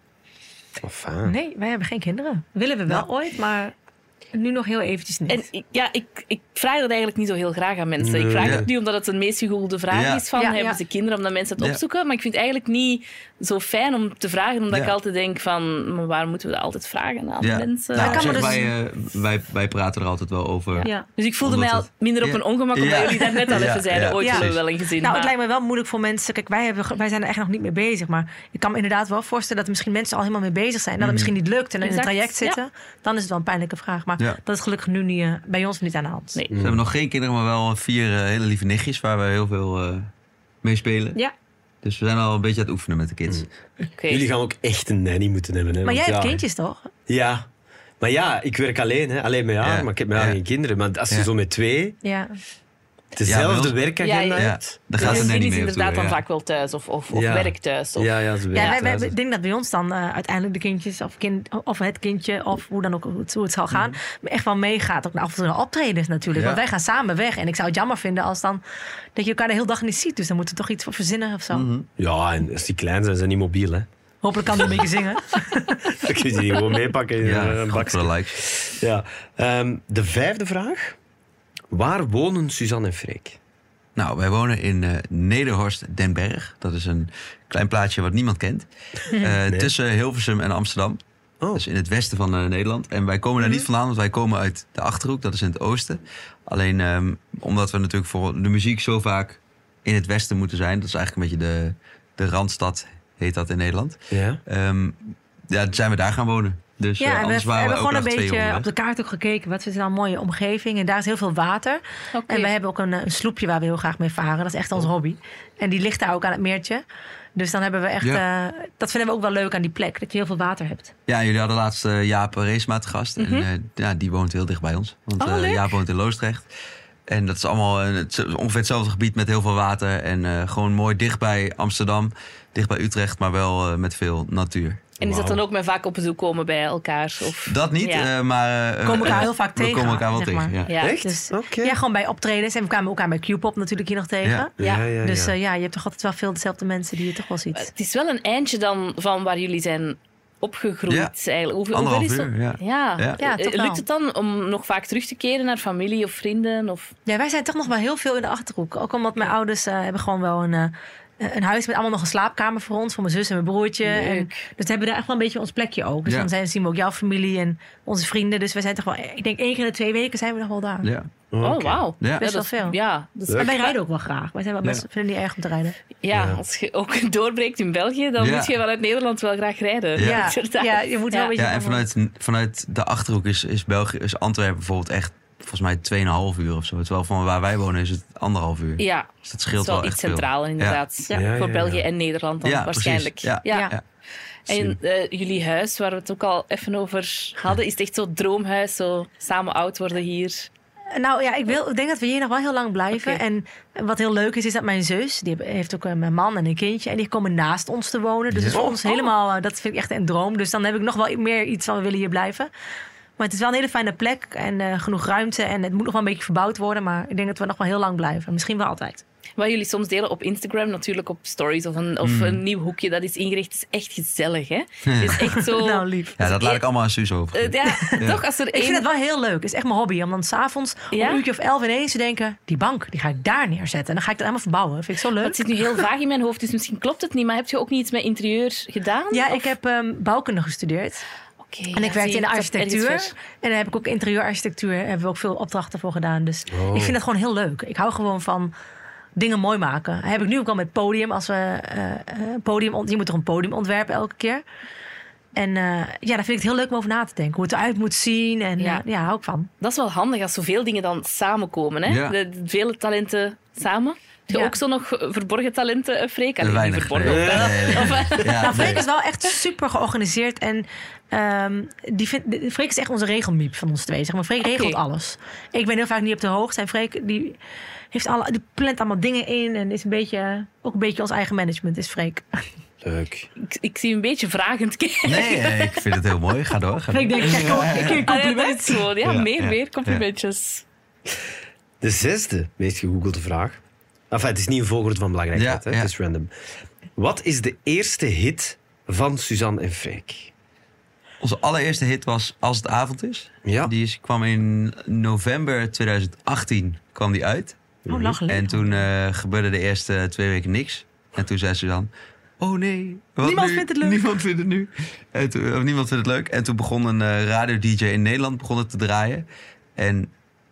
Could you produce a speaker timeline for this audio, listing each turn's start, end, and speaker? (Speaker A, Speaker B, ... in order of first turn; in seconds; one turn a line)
Speaker A: 0.8-1.4
Speaker B: 1.2-3.7
Speaker B: 4.3-5.5
Speaker C: 5.3-18.6
Speaker A: 8.0-8.7
Speaker D: 9.9-10.2
Speaker B: 10.4-10.8
Speaker D: 17.4-20.9
Speaker B: 18.0-18.7
Speaker C: 20.7-25.3
Speaker B: 20.8-21.1
Speaker D: 21.4-24.6
Speaker B: 24.2-24.5
Speaker B: 25.0-36.4
Speaker D: 31.0-31.3
Speaker C: 31.8-32.6
Speaker A: 36.5-36.9
Speaker D: 36.6-40.1
Speaker D: 40.6-41.2
Speaker D: 41.8-43.5
Speaker C: 44.0-44.2
Speaker A: 44.1-46.4
Speaker B: 45.8-46.9
Speaker A: 47.1-47.5
Speaker A: 48.0-52.0
Speaker D: 49.6-50.4
Speaker B: 52.0-52.3
Speaker A: 53.1-55.1
Speaker D: 53.2-53.8
Speaker C: 54.0-58.9
Speaker D: 54.4-56.2
Speaker A: 57.1-59.1
Speaker B: 58.5-68.6
Speaker D: 66.4-66.6
Speaker B: 69.1-71.7
Speaker D: 71.5-71.9
Speaker A: 72.0-73.9
Speaker B: 74.2-76.0
Speaker A: 76.0-81.0
Speaker D: 77.2-78.4
Speaker A: 81.7-83.4
Speaker D: 84.0-91.0
Speaker B: 89.1-89.4
Speaker A: 89.5-89.7
Speaker D: 91.5-108.7
Speaker A: 104.1-104.4
Speaker B: 107.0-116.8
Speaker C: 112.1-112.5
Speaker B: 117.4-120.9
Speaker D: 121.1-126.5
Speaker C: 123.2-123.5
Speaker C: 125.2-125.8
Speaker D: 127.1-134.9
Speaker C: 135.0-138.1
Speaker A: 135.0-135.4
Speaker D: 137.5-140.7
Speaker B: 138.8-147.7
Speaker C: 140.7-141.0
Speaker A: 140.8-141.8
Speaker A: 144.6-145.3
Speaker C: 144.6-144.9
Speaker C: 147.6-156.9
Speaker D: 151.7-153.2
Speaker B: 153.2-153.8
Speaker B: 157.1-170.9
Speaker C: 163.8-164.4
Speaker D: 170.8-171.1
Speaker A: 171.3-171.8
Speaker C: 171.4-173.8
Speaker B: 172.2-172.8
Speaker A: 173.3-173.5
Speaker B: 173.3-175.8
Speaker C: 176.0-181.3
Speaker A: 176.1-176.4
Speaker D: 178.2-178.5
Speaker D: 179.9-180.3
Speaker B: 180.0-181.9
Speaker D: 181.4-190.8
Speaker C: 188.8-193.7
Speaker A: 191.1-191.8
Speaker D: 192.4-193.8
Speaker B: 193.5-193.8
Speaker C: 194.5-200.5
Speaker D: 194.5-194.8
Speaker B: 200.9-212.5
Speaker C: 202.9-203.2
Speaker D: 208.3-208.6
Speaker A: 208.5-208.8
Speaker B: 213.2-219.0
Speaker C: 219.4-226.6
Speaker D: 222.0-222.4
Speaker D: 224.9-225.2
Speaker B: 225.2-226.2
Speaker D: 226.2-228.2
Speaker C: 227.3-228.8
Speaker B: 227.7-235.8
Speaker C: 230.9-231.2
Speaker C: 235.2-239.5
Speaker B: 239.1-241.0
Speaker C: 241.4-243.1
Speaker B: 241.7-248.5
Speaker A: 246.5-246.9
Speaker B: 249.2-254.4
Speaker B: 255.3-259.5
Speaker C: 259.6-268.7
Speaker D: 261.9-262.1
Speaker B: 264.3-264.6
Speaker D: 266.4-268.8
Speaker A: 267.0-268.8
Speaker B: 268.4-277.4
Speaker C: 274.4-274.8
Speaker B: 277.9-282.4
Speaker A: 282.8-283.3
Speaker C: 283.4-286.0
Speaker D: 285.1-288.1
Speaker B: 286.9-288.8
Speaker C: 287.2-290.6
Speaker D: 289.0-290.0
Speaker A: 291.8-296.3
Speaker D: 295.4-295.9
Speaker A: 296.9-300.3
Speaker D: 301.2-307.6
Speaker A: 303.4-303.7
Speaker A: 307.9-308.2
Speaker B: 307.9-308.9
Speaker D: 308.3-319.3
Speaker B: 313.2-314.1
Speaker D: 319.8-320.1